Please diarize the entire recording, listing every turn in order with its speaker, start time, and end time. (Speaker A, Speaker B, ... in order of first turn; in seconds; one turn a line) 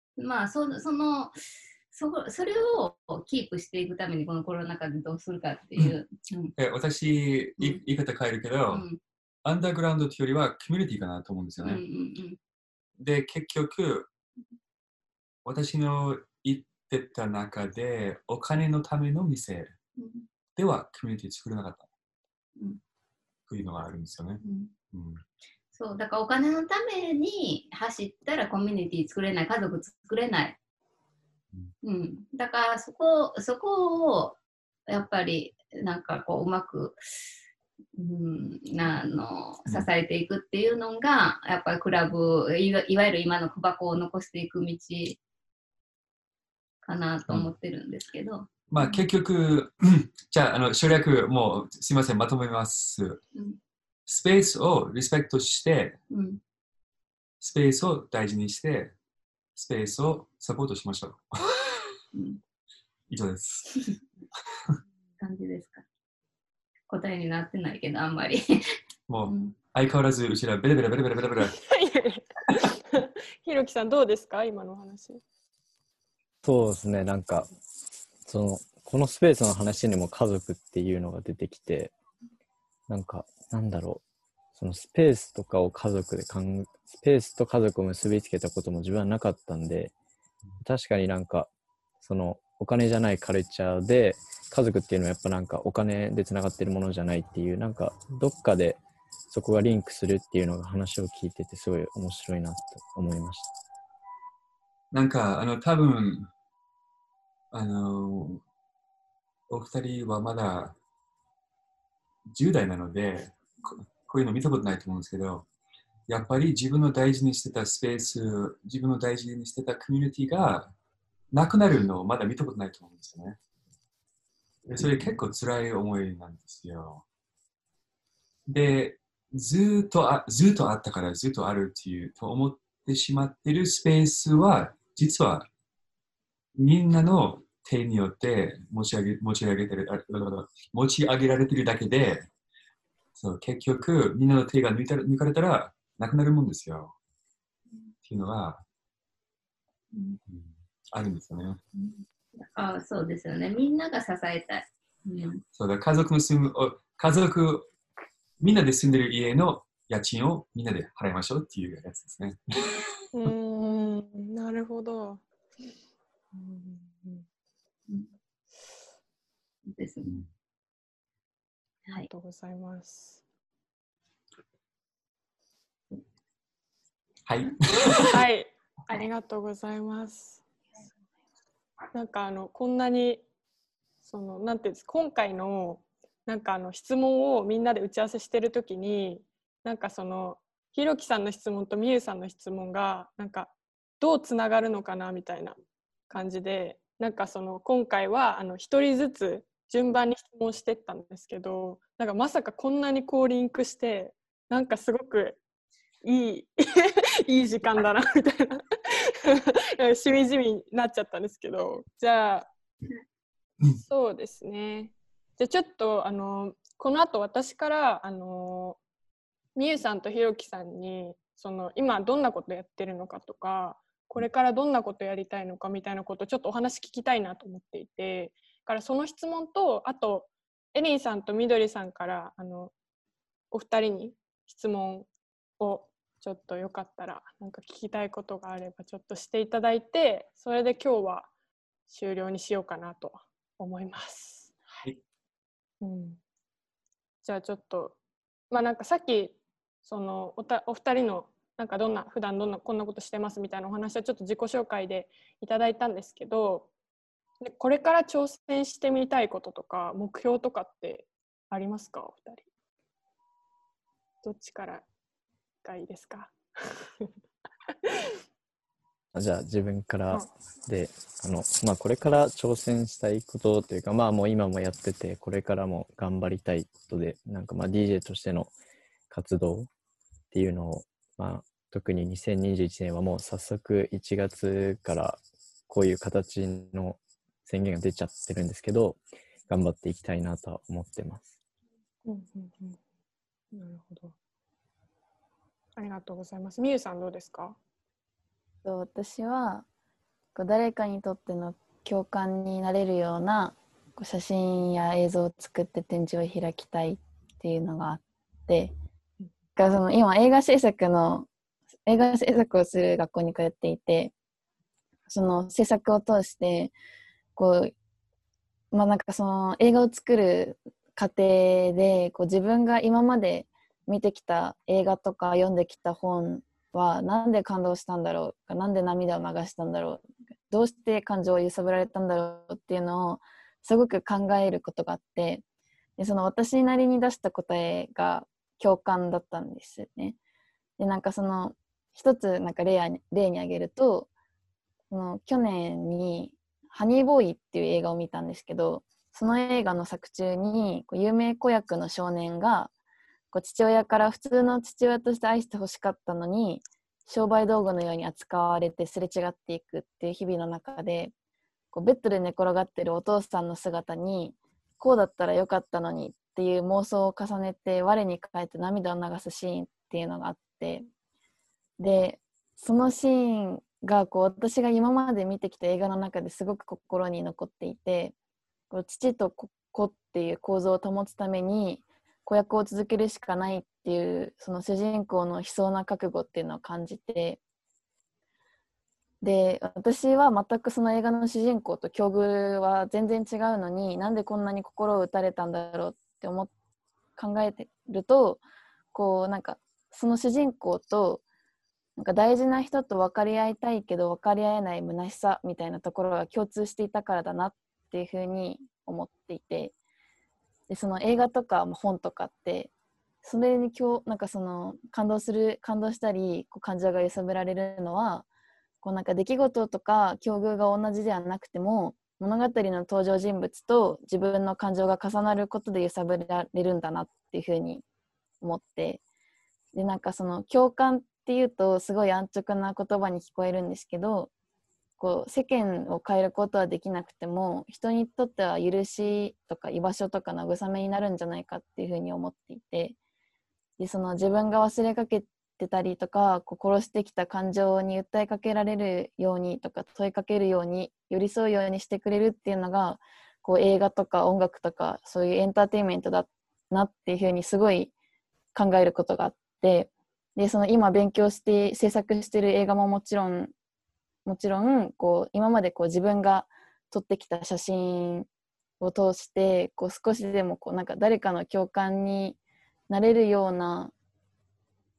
Speaker A: 0.2-6.5
Speaker B: 6.6-8.8
Speaker A: 8.7-9.0
Speaker B: 9.4-11.8
Speaker A: 11.6-12.4
Speaker B: 13.0-14.1
Speaker B: 15.4-19.7
Speaker A: 20.0-20.3
Speaker B: 20.6-21.9
Speaker B: 23.5-25.2
Speaker A: 24.4-24.7
Speaker A: 25.7-30.6
Speaker A: 31.8-34.4
Speaker A: 34.9-37.2
Speaker A: 38.0-45.2
Speaker A: 46.8-49.1
Speaker B: 48.7-53.2
Speaker B: 54.1-56.0
Speaker A: 56.1-56.4
Speaker B: 57.4-58.9
Speaker B: 59.5-61.4
Speaker A: 62.1-62.4
Speaker B: 63.1-63.8
Speaker A: 65.2-65.8
Speaker A: 66.9-69.6
Speaker B: 69.1-71.6
Speaker C: 71.4-75.2
Speaker D: 76.4-77.5
Speaker D: 78.2-81.9
Speaker D: 82.9-84.0
Speaker D: 84.5-89.9
Speaker D: 90.6-91.5
Speaker D: 92.0-103.5
Speaker B: 104.9-106.3
Speaker B: 107.5-108.4
Speaker B: 109.5-110.8
Speaker B: 112.3-115.5
Speaker B: 116.1-120.7
Speaker B: 121.3-123.4
Speaker B: 124.7-127.0
Speaker B: 128.5-135.5
Speaker B: 136.6-142.3
Speaker B: 143.2-146.9
Speaker B: 148.1-148.6
Speaker A: 149.9-150.2
Speaker B: 150.3-151.6
Speaker A: 151.7-155.4
Speaker B: 155.6-157.7
Speaker B: 158.4-162.8
Speaker C: 163.1-165.7
Speaker C: 166.3-167.2
Speaker A: 169.7-170.2
Speaker C: 172.1-173.2
Speaker B: 177.3-178.2
Speaker C: 178.1-180.4
Speaker C: 181.9-183.2
Speaker C: 184.0-195.6
Speaker C: 196.1-205.4
Speaker C: 206.0-212.5
Speaker C: 213.8-218.8
Speaker C: 219.6-232.7
Speaker C: 233.5-235.1
Speaker C: 235.6-241.3
Speaker C: 241.9-244.8
Speaker C: 245.8-246.2
Speaker C: 247.2-248.0
Speaker C: 248.5-256.7
Speaker C: 257.4-262.4
Speaker C: 264.2-264.9
Speaker C: 265.6-267.1
Speaker C: 267.8-268.2
Speaker D: 269.1-278.5
Speaker D: 279.1-279.7
Speaker D: 280.3-291.3
Speaker C: 292.1-292.8
Speaker C: 293.5-294.1
Speaker C: 295.8-297.6
Speaker E: 298.6-299.7
Speaker E: 300.4-308.7
Speaker E: 309.6-311.3
Speaker E: 311.9-314.1
Speaker E: 315.1-316.7
Speaker E: 317.4-317.7
Speaker E: 318.7-335.4
Speaker E: 336.0-340.2
Speaker E: 340.8-344.1
Speaker E: 344.9-352.7
Speaker E: 353.3-361.1
Speaker E: 361.7-370.9
Speaker E: 371.8-378.1
Speaker E: 378.7-387.4
Speaker E: 389.2-396.5
Speaker E: 397.2-398.4
Speaker E: 398.9-401.2
Speaker E: 402.0-409.8
Speaker E: 410.7-412.7
Speaker E: 413.2-418.3
Speaker E: 418.8-427.8
Speaker E: 428.4-429.0
Speaker E: 429.7-434.3
Speaker E: 435.0-443.0
Speaker E: 443.8-457.9
Speaker E: 458.6-463.5
Speaker E: 464.3-468.3
Speaker E: 468.8-472.4
Speaker E: 472.9-473.9